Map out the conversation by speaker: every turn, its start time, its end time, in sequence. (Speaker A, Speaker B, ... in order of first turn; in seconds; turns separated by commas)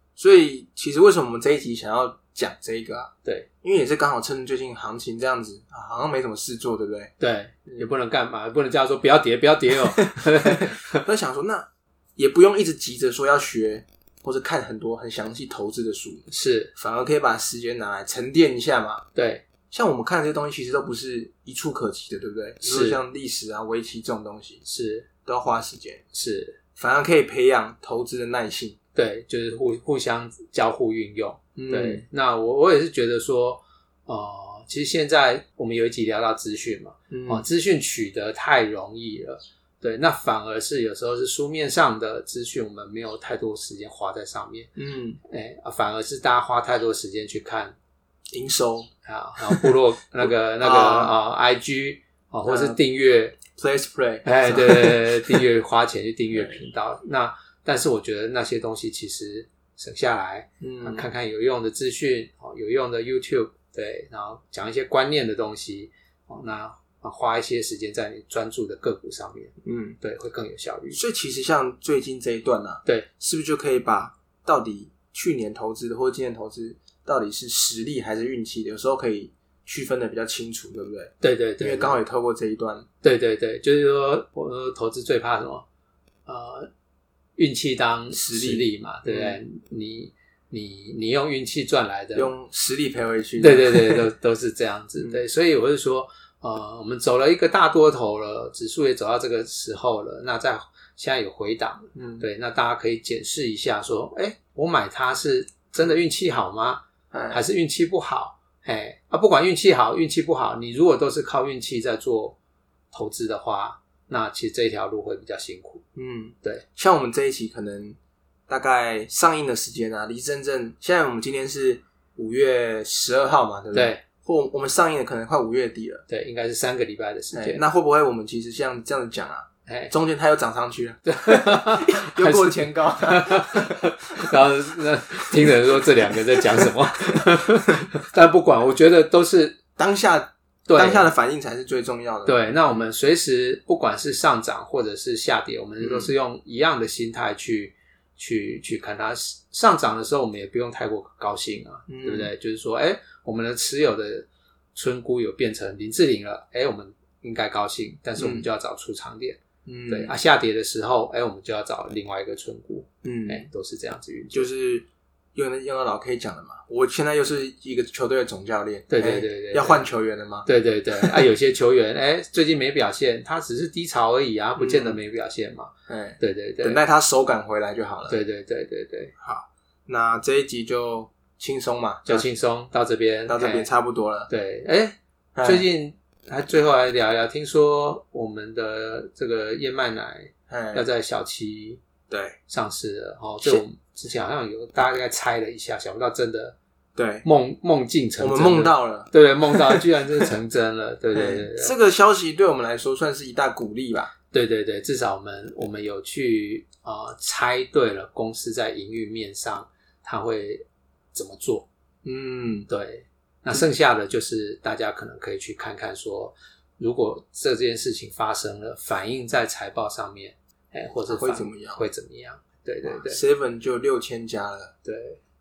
Speaker A: 0.2-3.1, Speaker A: 3.6-7.1, Speaker B: 7.2-11.0, Speaker A: 9.7-19.0, Speaker B: 16.3-16.7, Speaker B: 19.1-19.4, Speaker A: 19.7-24.6, Speaker B: 22.6-23.0, Speaker B: 24.6-25.1, Speaker A: 25.2-26.0, Speaker B: 26.1-26.6, Speaker A: 26.8-28.8, Speaker B: 28.9-44.7, Speaker A: 31.6-32.0, Speaker A: 37.1-37.5, Speaker A: 44.8-45.2, Speaker B: 45.2-47.8, Speaker A: 48.3-51.1, Speaker B: 49.0-53.4, Speaker A: 52.4-52.8, Speaker A: 53.5-55.5, Speaker B: 54.2-71.0, Speaker A: 60.6-61.1, Speaker A: 69.6-70.0, Speaker A: 70.9-82.9, Speaker B: 81.2-82.0, Speaker B: 83.0-85.6, Speaker B: 86.2-86.7, Speaker B: 87.4-92.3, Speaker A: 88.1-89.4, Speaker A: 92.1-94.1, Speaker B: 93.4-112.4, Speaker A: 101.9-102.2, Speaker A: 107.1-107.4, Speaker B: 112.9-115.8, Speaker A: 116.0-118.0, Speaker A: 118.5-126.0, Speaker B: 123.7-124.0, Speaker B: 126.1-127.6, Speaker A: 127.3-134.3, Speaker B: 129.7-129.9, Speaker B: 131.0-139.6, Speaker A: 136.1-136.8, Speaker A: 139.8-142.8, Speaker B: 140.7-141.1, Speaker B: 142.2-164.5, Speaker A: 145.8-146.1, Speaker A: 151.9-152.3, Speaker A: 158.2-158.5, Speaker A: 159.7-160.1, Speaker A: 163.0-163.5, Speaker A: 164.3-171.2, Speaker B: 168.9-169.8, Speaker B: 170.4-176.8, Speaker A: 174.6-175.0, Speaker A: 175.9-178.2, Speaker B: 178.1-179.1, Speaker A: 179.2-182.3, Speaker B: 182.1-183.7, Speaker A: 183.3-184.3, Speaker B: 184.3-191.8, Speaker A: 185.4-185.7, Speaker A: 190.5-190.9, Speaker A: 192.1-192.4, Speaker B: 192.5-196.6, Speaker A: 197.0-197.2, Speaker B: 197.2-201.7, Speaker A: 198.2-200.3, Speaker A: 201.1-204.1, Speaker B: 204.3-211.7, Speaker A: 212.0-212.7, Speaker B: 212.7-223.2, Speaker A: 221.1-221.8, Speaker A: 222.8-224.7, Speaker B: 224.8-225.2